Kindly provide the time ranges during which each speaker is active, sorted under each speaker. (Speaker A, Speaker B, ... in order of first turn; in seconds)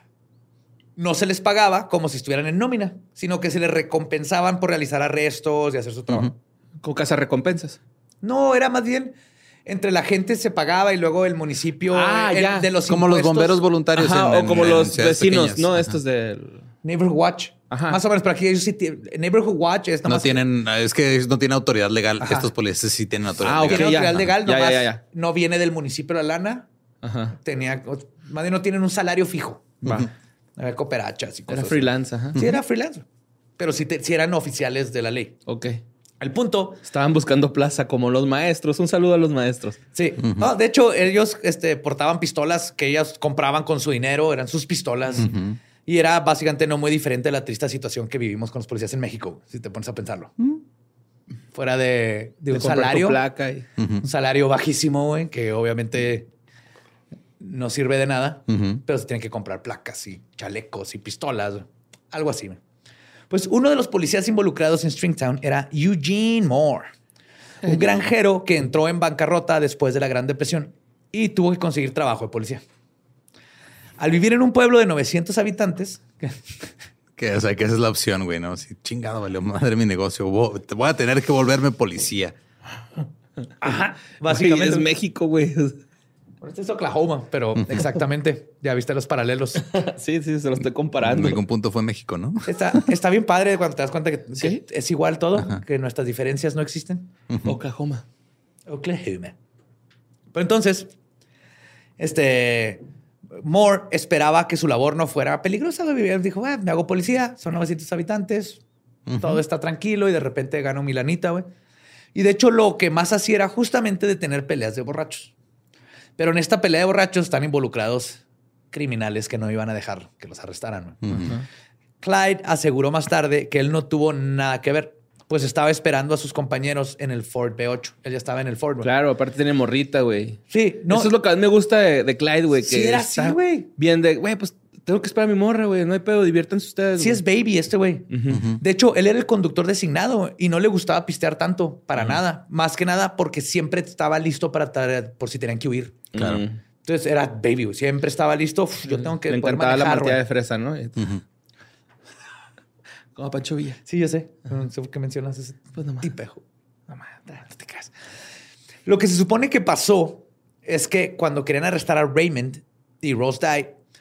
Speaker A: 0.9-6.3, 8.2-9.1, 9.7-13.7, 16.8-20.4, 22.2-22.5, 23.6-26.6, 27.4-33.0, 33.6-35.3, 36.2-36.8, 39.9-45.3, 45.8-50.4, 51.5-53.2, 54.0-56.3, 57.4-62.6, 63.3-66.9, 67.6-72.6, 74.0-76.5, 83.6-84.9, 86.4-89.6, 92.4-97.1, 98.7-99.3, 100.3-100.9, 102.0-102.8, 103.4-108.6, 109.2-111.5, 112.1-115.3, 116.2-118.2, 118.7-121.3, 122.0-128.9, 130.5-131.1, 132.6-133.7, 137.0-146.1, 146.8-150.2, 153.9-156.4, 157.1-157.9, 158.8-163.7
Speaker B: 6.8-7.8, 11.9-12.7, 13.9-16.7, 17.7-18.0, 23.4-25.0, 27.0-27.4, 31.5-32.4, 35.5-35.8, 36.9-39.8, 52.5-53.6, 84.3-85.8, 89.7-91.4, 97.4-98.0, 128.8-137.2, 138.1-138.4, 146.1-146.6, 148.9-151.1, 153.2-153.8, 155.8-156.1
Speaker C: 12.8-16.0, 20.1-24.2, 29.8-30.1, 40.2-40.5, 45.2-45.6, 53.8-54.0, 58.5-58.8, 77.2-82.3, 91.0-92.9, 97.3-97.6, 109.1-109.4, 121.0-121.3, 138.3-138.6, 146.1-146.4, 151.0-151.2